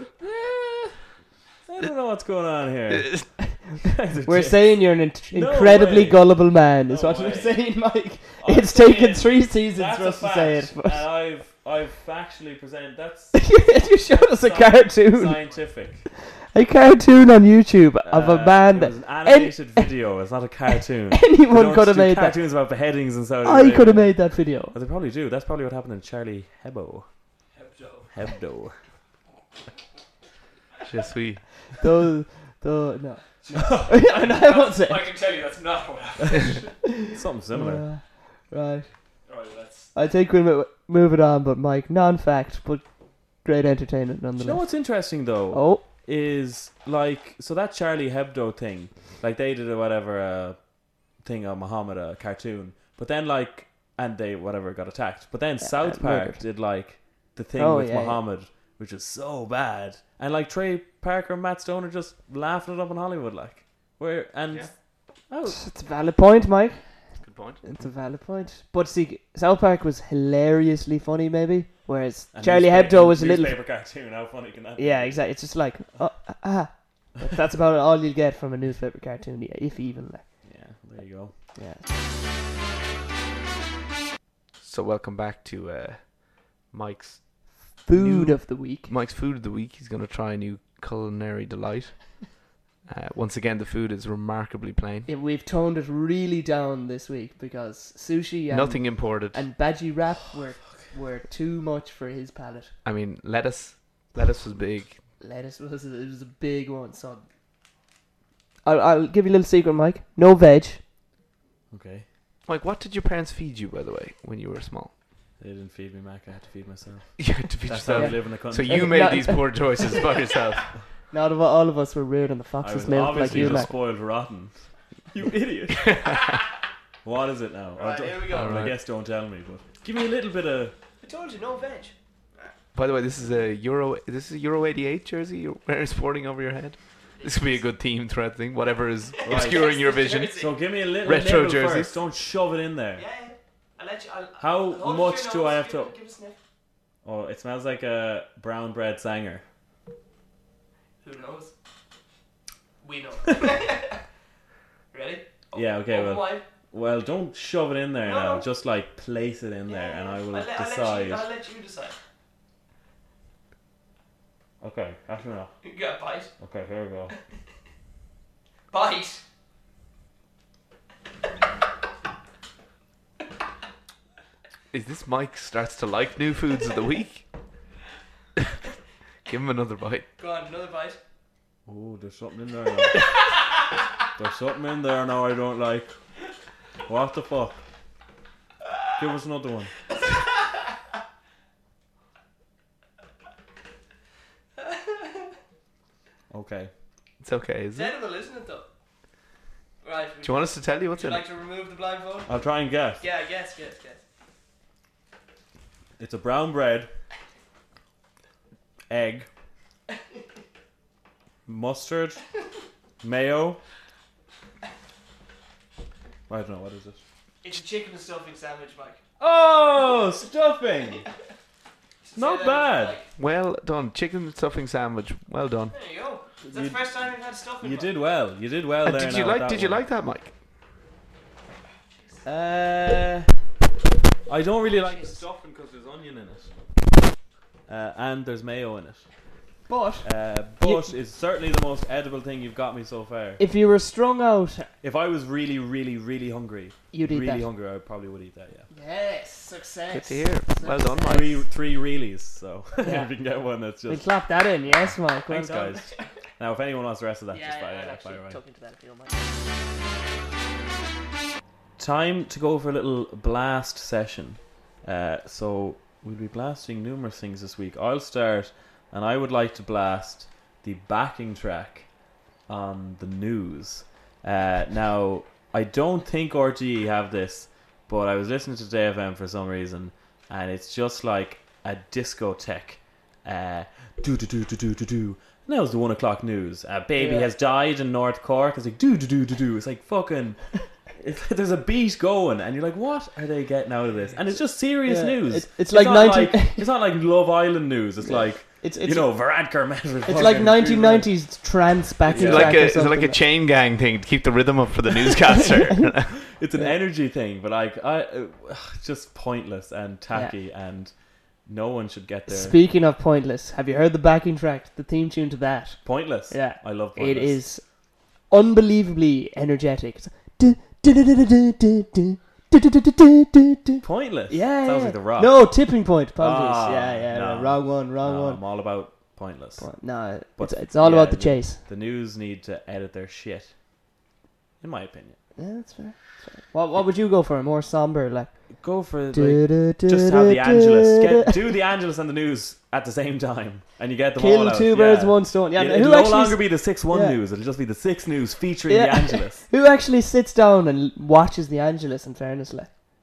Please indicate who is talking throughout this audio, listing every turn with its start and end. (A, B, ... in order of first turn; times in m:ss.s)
0:00.2-0:01.0 A
0:01.7-0:04.8 A
0:02.9-0:03.3 B
0:04.2-0:11.0 C
0:05.3-0:06.2 A
0:06.9-0:07.6 A
0:08.4-0:13.6 A
0:13.3-0:19.9 C
0:14.1-0:16.1 A
0:18.0-0:27.1 A
0:21.1-0:22.4 C
0:23.4-0:24.8 C
0:27.5-0:28.1 D
0:28.1-0:28.8 A
0:30.8-0:31.7 B
0:31.8-0:35.1 C
0:33.4-0:36.8 D
0:33.6-0:33.9 A
0:36.9-0:38.9 C
0:37.0-0:37.9 A
0:39.3-0:39.9 D
0:39.9-0:44.8 C
0:44.4-0:50.6 A
0:45.5-0:45.8 C
0:51.2-1:05.6 A
0:55.6-0:56.4 C
0:57.6-0:58.2 C
1:05.4-1:13.6 C
1:07.2-1:07.6 B
1:12.3-1:15.2 A
1:14.8-1:20.4 C
1:20.4-1:21.3 A
1:21.6-1:21.8 C
1:24.6-1:35.1 B
1:27.8-1:28.9 C
1:35.1-1:42.7 C
1:38.5-1:39.4 B
1:42.8-1:45.0 B
1:45.2-1:47.2 C
1:48.6-1:50.8 C
1:51.7-1:52.1 A
1:52.5-1:54.9 B
1:55.4-1:59.2 A
1:57.2-2:00.7 B
1:57.9-1:59.9 C
2:01.1-2:03.7 C
2:02.6-2:06.1 A
2:03.3-2:03.7 B
2:05.8-2:06.4 B
2:07.0-2:10.8 A
2:07.8-2:08.5 C
2:08.3-2:08.8 B
2:11.0-2:11.9 C
2:12.7-2:22.0 B
2:17.2-2:17.6 C
2:19.1-2:20.6 C
2:19.2-2:19.7 A
2:20.3-2:23.0 A
2:23.0-2:26.4 C
2:24.4-2:25.9 A
2:27.0-2:29.4 A
2:31.0-2:31.5 C
2:32.8-2:34.0 C
2:34.9-2:36.4 C
2:35.5-2:41.3 A
2:38.0-2:38.5 C
2:39.7-2:42.0 C
2:44.6-2:45.5 A
2:45.6-2:46.3 C
2:46.4-2:47.1 A
2:48.7-2:49.2 C
2:54.7-2:57.2 B
2:59.2-3:00.1 B
3:00.2-3:01.0 C
3:01.7-3:03.0 A
3:04.2-3:05.9 A
3:06.9-3:07.6 A
3:09.0-3:09.7 A
3:14.7-3:15.1 C
3:16.3-3:16.7 A
3:17.2-3:17.9 B
3:17.8-3:18.7 C
3:19.8-3:24.0 C
3:20.2-3:21.3 B
3:22.3-3:23.0 A
3:26.0-3:26.9 A
3:28.9-3:29.3 A
3:31.5-3:32.2 A
3:33.0-3:33.6 A
3:36.3-3:37.0 A
3:37.4-3:39.0 C
3:39.2-3:41.0 A
3:42.1-3:43.1 C
3:42.2-3:43.0 A
3:43.2-3:45.7 B
3:45.7-3:48.0 C
3:46.4-3:47.0 A
3:47.6-3:49.8 A
3:48.8-3:50.3 B
3:52.2-3:53.3 A
3:54.3-3:56.5 A
3:54.9-3:55.2 C
3:57.7-3:59.0 A
3:59.7-4:00.1 C
4:00.0-4:03.4 A
4:00.6-4:00.9 C
4:03.4-4:04.7 C
4:04.8-4:08.7 A
4:06.9-4:07.5 C
4:08.7-4:11.4 C
4:09.9-4:11.4 B
4:11.0-4:14.1 A
4:12.8-4:13.1 C
4:13.9-4:16.0 C
4:14.7-4:18.4 A
4:17.3-4:19.2 C
4:21.8-4:31.9 A
4:32.5-5:01.1 A
4:47.0-4:47.3 C
4:54.8-4:56.7 C
4:58.0-4:59.2 C
5:00.0-5:03.2 C
5:02.1-5:02.7 A
5:02.1-5:06.2 B
5:05.3-5:05.9 C
5:06.2-5:10.9 A
5:11.4-5:12.6 A
5:12.3-5:28.4 C
5:15.8-5:17.4 A
5:23.8-5:25.5 A
5:26.2-5:29.8 A
5:29.6-5:31.6 C
5:30.4-5:33.5 A
5:34.6-5:35.2 A
5:35.4-5:41.3 C
5:38.6-5:49.5 A
5:44.2-5:47.2 C
5:48.7-5:52.7 C